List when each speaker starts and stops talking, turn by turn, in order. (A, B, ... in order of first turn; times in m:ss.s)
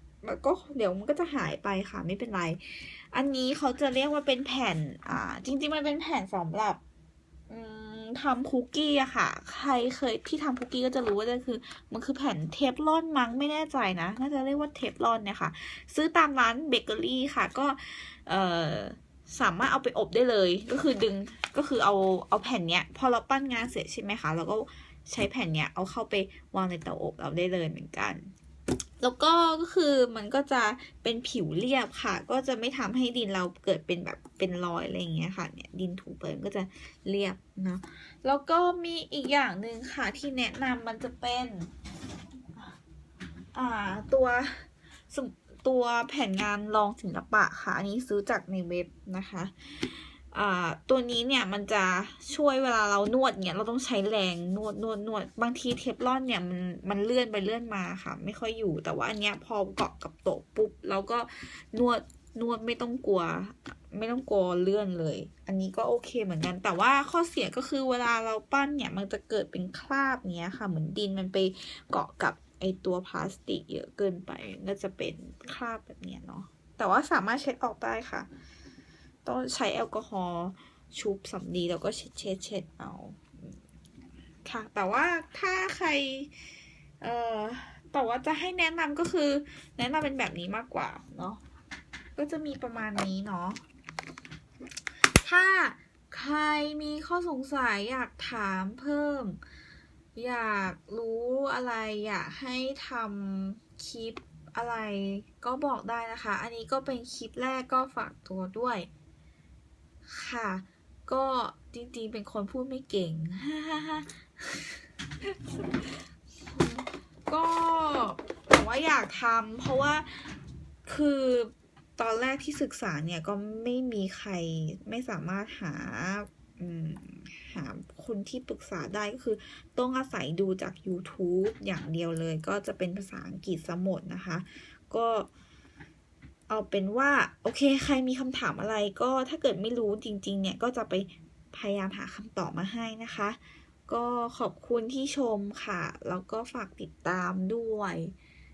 0:00.2-0:06.8 A
0:07.5-0:28.3 A
0:29.0-0:41.7 A
0:43.5-1:18.3 A
1:19.2-1:23.6 A
1:24.4-1:26.3 A
1:27.0-1:31.4 A
1:32.2-1:33.6 A
1:35.2-1:39.4 A
1:40.2-1:48.9 A
1:50.0-2:00.3 A
2:00.8-2:15.3 A
2:16.5-2:28.1 A